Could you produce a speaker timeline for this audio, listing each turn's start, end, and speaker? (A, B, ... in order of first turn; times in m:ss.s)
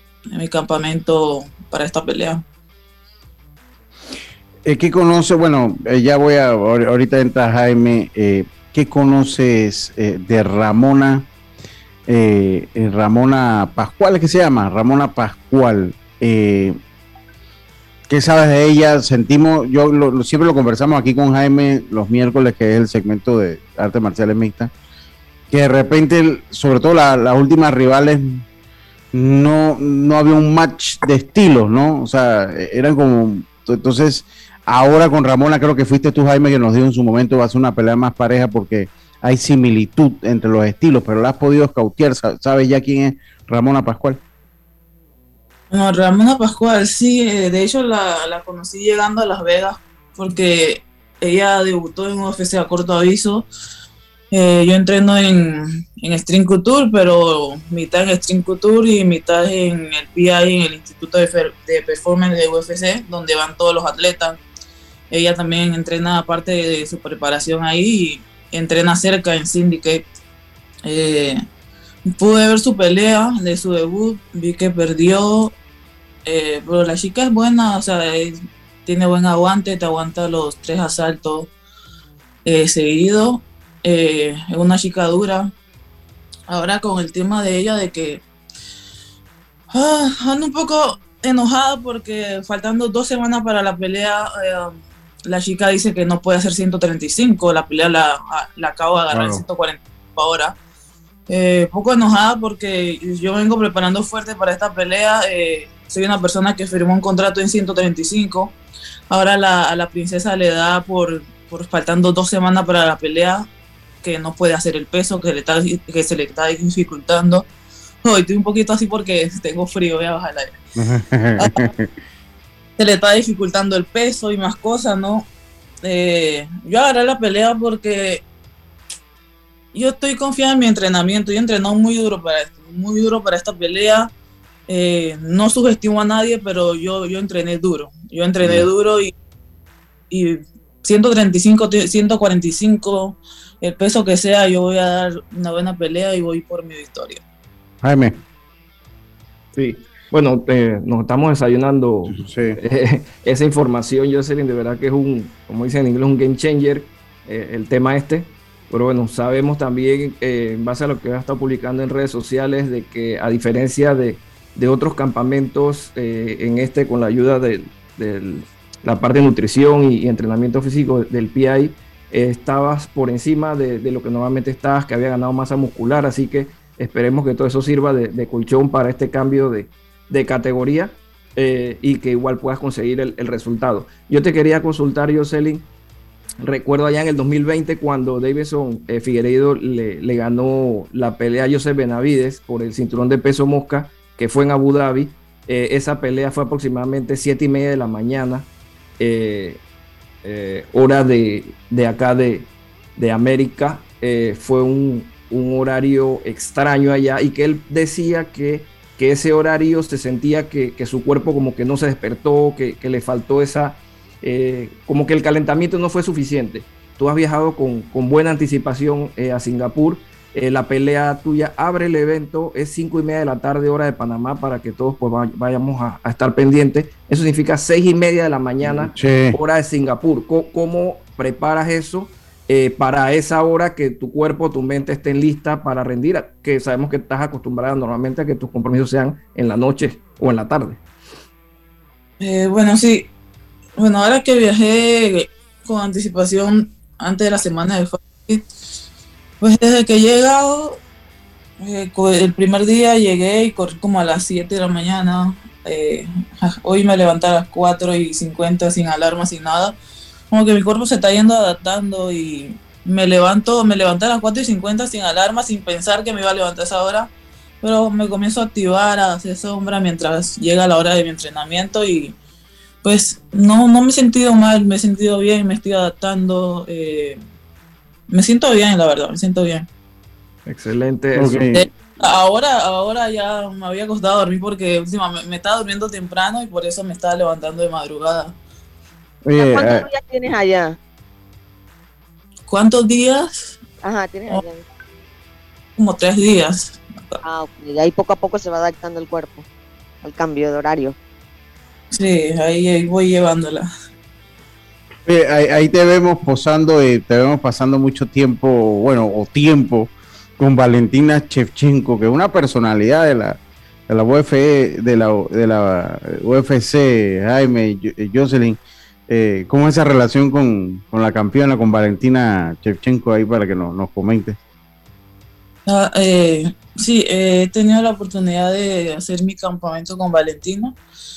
0:00.3-0:02.4 A
0:04.6-0:11.3 B
0:12.1-0:16.8 B
0:18.1-0:24.7 B
0:25.5-0:28.4 B
0:29.1-0:44.2 B
0:45.7-0:53.5 A
0:54.3-1:04.4 A
1:05.1-1:10.1 A
1:10.8-1:11.4 A
1:12.2-1:15.5 A
1:16.3-1:21.5 A
1:22.4-1:25.5 A
1:26.5-1:28.2 A
1:29.7-1:40.6 A
1:39.1-1:39.4 B
1:41.3-1:48.6 A
1:49.1-1:53.5 A
1:54.0-1:57.5 A
1:58.0-2:00.6 A
2:00.8-2:01.9 B
2:01.4-2:01.7 A
2:02.8-2:05.3 A
2:05.8-2:08.2 A
2:09.7-2:14.1 A
2:14.7-2:19.1 A
2:18.4-2:18.7 B
2:20.1-2:27.2 A
2:27.8-2:28.2 B
2:29.6-3:05.7 C
2:32.1-2:32.6 B
3:06.4-3:19.6 C
3:20.2-4:00.8 C
3:48.6-3:49.4 B
4:02.2-4:03.1 A
4:03.8-4:08.5 A
4:09.4-4:10.8 A
4:11.6-4:19.8 A
4:20.3-4:27.1 A
4:27.6-4:32.2 A
4:32.8-4:37.2 A
4:38.1-4:39.7 A
4:40.5-4:41.5 C
4:41.2-4:41.7 B
4:41.5-4:48.3 A
4:49.3-4:49.9 B
4:49.4-4:50.8 D
4:52.5-4:53.6 A
4:53.8-4:54.6 D
4:55.8-4:57.2 A
4:57.2-4:59.4 D
5:00.0-5:01.0 D
5:01.9-5:03.7 A
5:05.0-5:13.4 B
5:13.9-5:24.4 B
5:25.7-5:30.8 A